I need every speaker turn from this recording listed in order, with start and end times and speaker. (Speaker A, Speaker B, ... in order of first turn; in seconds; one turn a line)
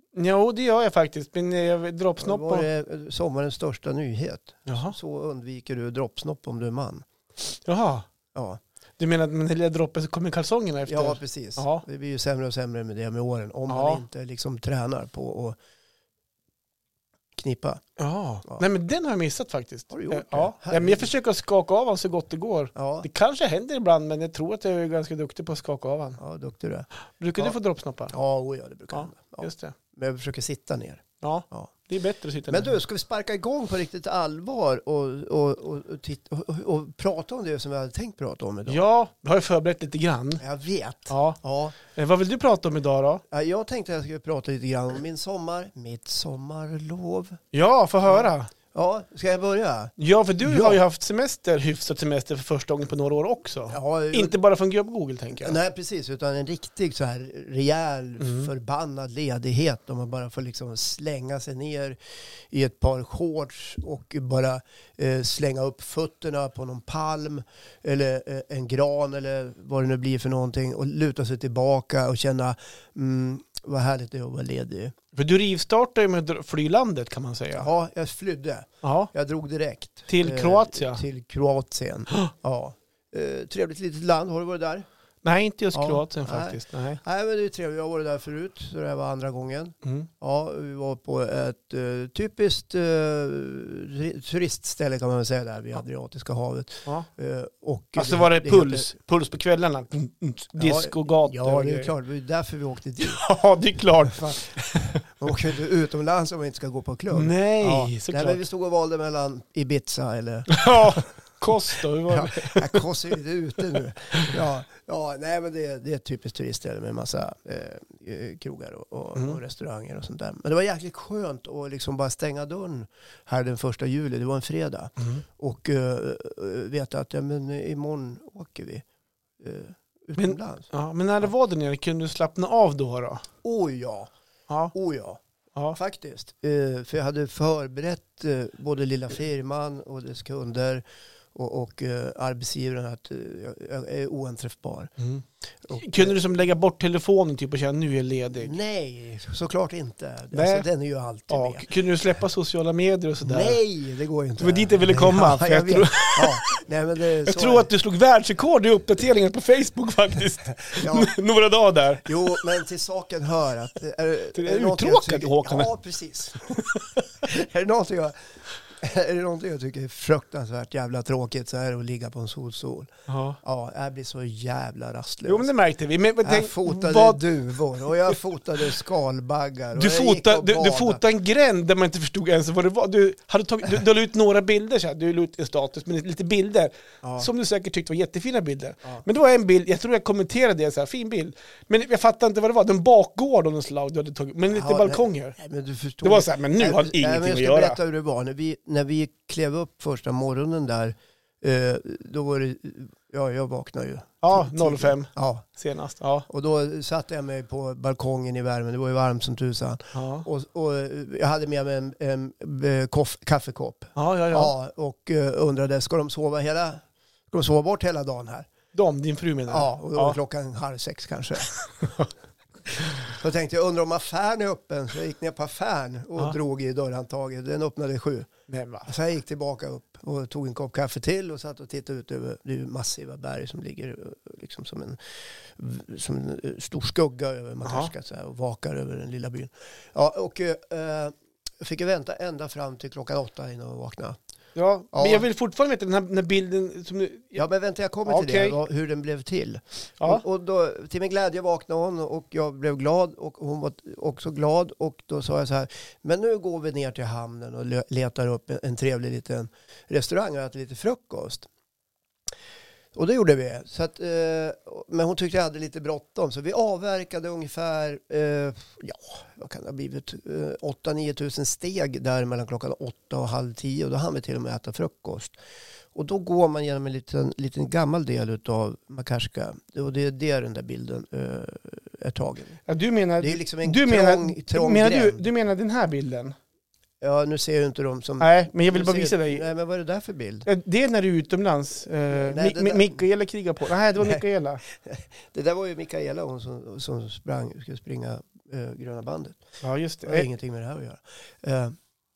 Speaker A: 0.1-2.7
Speaker B: 2.2-7.1
Speaker A: 4.7-5.0
Speaker A: 7.6-8.1
Speaker B: 8.3-8.6
Speaker A: 9.0-11.8
Speaker B: 10.9-15.6
Speaker A: 13.7-14.0
Speaker B: 17.4-17.8
Speaker A: 18.0-26.2
Speaker B: 19.9-21.1
Speaker B: 22.8-23.1
Speaker B: 26.2-27.6
Speaker A: 27.2-28.1
Speaker B: 28.1-31.7
Speaker A: 28.9-29.8
Speaker A: 31.2-32.8
Speaker B: 32.5-38.9
Speaker A: 38.7-40.4
Speaker B: 40.4-41.8
Speaker A: 41.1-43.2
Speaker B: 43.3-47.4
Speaker A: 47.5-48.5
Speaker B: 48.0-50.8
Speaker A: 50.0-55.6
Speaker B: 53.7-54.4
Speaker B: 55.4-62.0
Speaker A: 58.2-58.5
Speaker B: 62.5-74.9
Speaker A: 75.1-77.7
Speaker B: 77.6-84.9
Speaker A: 78.8-79.1
Speaker A: 80.1-81.0
Speaker A: 85.2-87.0
Speaker B: 85.7-98.9
Speaker A: 89.8-90.1
Speaker A: 98.0-101.9
Speaker B: 100.6-103.2
Speaker A: 103.0-105.0
Speaker B: 104.5-111.0
Speaker A: 107.1-108.4
Speaker A: 110.5-112.9
Speaker B: 112.1-128.8
Speaker B: 129.4-130.7
Speaker A: 130.2-133.2
Speaker B: 133.4-134.1
Speaker B: 134.7-135.2
Speaker B: 135.7-140.8
Speaker B: 141.3-144.9
Speaker A: 145.0-145.2
Speaker B: 145.6-146.2
Speaker A: 145.8-148.5
Speaker B: 148.4-151.7
Speaker A: 150.3-150.7
Speaker A: 151.3-153.6
Speaker B: 153.2-157.7
Speaker A: 154.4-156.5
Speaker A: 157.2-162.4
Speaker B: 160.6-161.1
Speaker B: 162.1-175.5
Speaker A: 164.3-165.7
Speaker A: 166.7-167.1
Speaker A: 173.1-173.4
Speaker A: 175.3-177.2
Speaker B: 176.2-181.0
Speaker A: 177.8-178.2
Speaker A: 179.8-195.3
Speaker B: 187.0-187.3
Speaker B: 194.5-205.5
Speaker A: 196.0-197.8
Speaker A: 204.2-206.3
Speaker B: 206.3-218.5
Speaker A: 209.9-210.3
Speaker A: 214.0-214.5
Speaker A: 218.7-220.2
Speaker B: 219.5-221.6
Speaker A: 221.8-222.1
Speaker B: 223.0-228.3
Speaker A: 228.5-228.9
Speaker B: 228.8-244.2
Speaker A: 237.7-237.9
Speaker A: 244.6-247.4
Speaker B: 244.9-245.3
Speaker B: 247.3-261.5
Speaker A: 248.1-248.6
Speaker B: 262.9-275.4
Speaker B: 275.9-282.6
Speaker A: 282.7-286.4
Speaker B: 283.2-285.3
Speaker B: 287.0-290.5
Speaker A: 288.2-289.4
Speaker A: 290.5-294.6
Speaker B: 292.1-293.0
Speaker B: 294.0-299.4
Speaker A: 299.6-300.3
Speaker B: 300.1-301.8